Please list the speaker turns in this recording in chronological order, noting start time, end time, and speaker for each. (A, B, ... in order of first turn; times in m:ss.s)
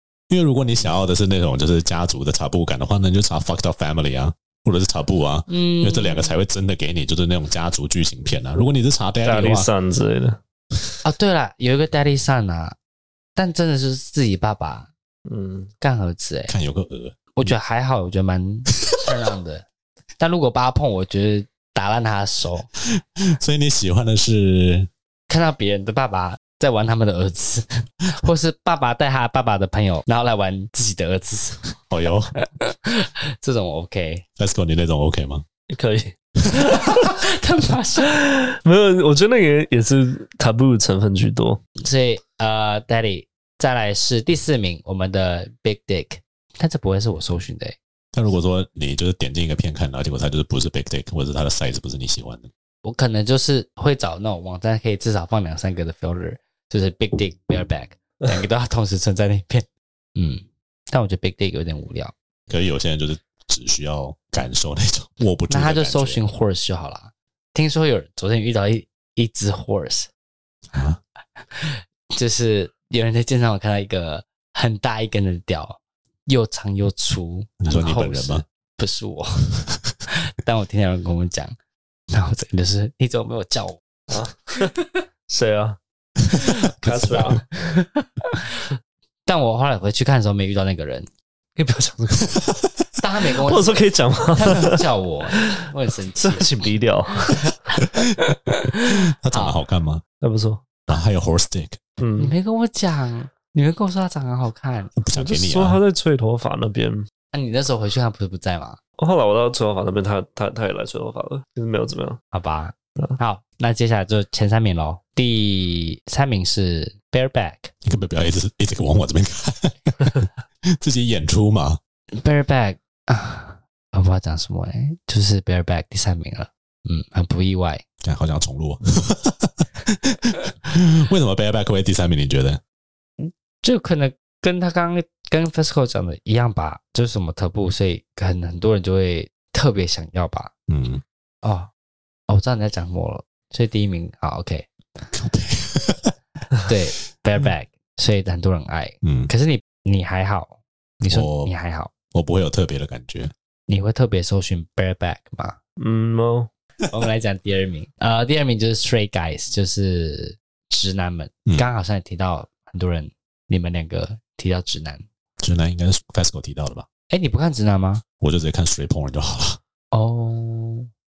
0:00.3-0:09.7 A
0:05.5-0:06.4 B
0:09.2-0:10.4 C
0:11.0-0:12.8 B
0:13.4-0:14.9 B
0:15.3-0:15.7 C
0:15.8-0:16.5 B
0:16.5-0:17.5 A
0:17.3-0:19.7 B
0:20.2-0:22.7 B
0:23.4-0:24.9 A
0:25.3-0:31.7 B
0:31.9-0:32.3 A
0:32.6-0:34.2 B
0:34.4-0:35.4 A
0:35.7-0:36.2 C
0:36.7-0:38.2 B
0:38.1-0:41.6 C
0:41.8-0:47.8 B
0:48.1-0:52.5 A
0:52.8-1:02.1 B
1:02.5-1:06.2 A
1:05.5-1:10.1 B
1:10.7-1:11.0 A
1:11.4-1:19.5 B
1:17.6-1:18.4 A
1:20.1-1:21.6 B
1:22.1-1:23.8 B
1:24.1-1:24.7 C
1:25.3-1:25.8 C
1:26.3-1:27.4 A
1:26.8-1:27.4 C
1:26.8-1:28.6 B
1:29.3-1:31.1 B
1:31.6-1:32.5 C
1:32.4-1:32.7 A
1:33.0-1:36.6 B
1:33.4-1:34.8 C
1:35.4-1:35.6 C
1:36.2-1:37.5 C
1:38.7-1:39.6 B
1:39.2-1:40.0 A
1:40.2-1:40.6 C
1:40.9-1:41.8 A
1:42.0-1:42.4 C
1:42.2-1:45.0 B
1:45.0-1:45.8 A
1:45.1-1:47.1 C
1:47.3-1:48.8 B
1:49.0-1:52.2 C
1:52.3-1:57.7 B
1:57.8-2:00.3 A
2:00.8-2:01.8 A
2:02.2-2:07.8 B
2:08.0-2:12.6 A
2:13.2-2:20.5 B
2:20.7-2:21.0 A
2:21.4-2:21.7 B
2:22.3-2:24.7 B
2:25.1-2:26.1 A
2:26.7-2:31.9 B
2:29.0-2:29.3 A
2:31.1-2:31.5 A
2:32.1-2:33.3 A
2:33.7-2:35.6 B
2:35.8-2:36.5 C
2:36.9-2:45.0 B
2:41.5-2:41.7 A
2:45.4-2:46.9 A
2:47.1-2:48.0 B
2:48.2-2:49.6 A
2:49.9-2:50.9 B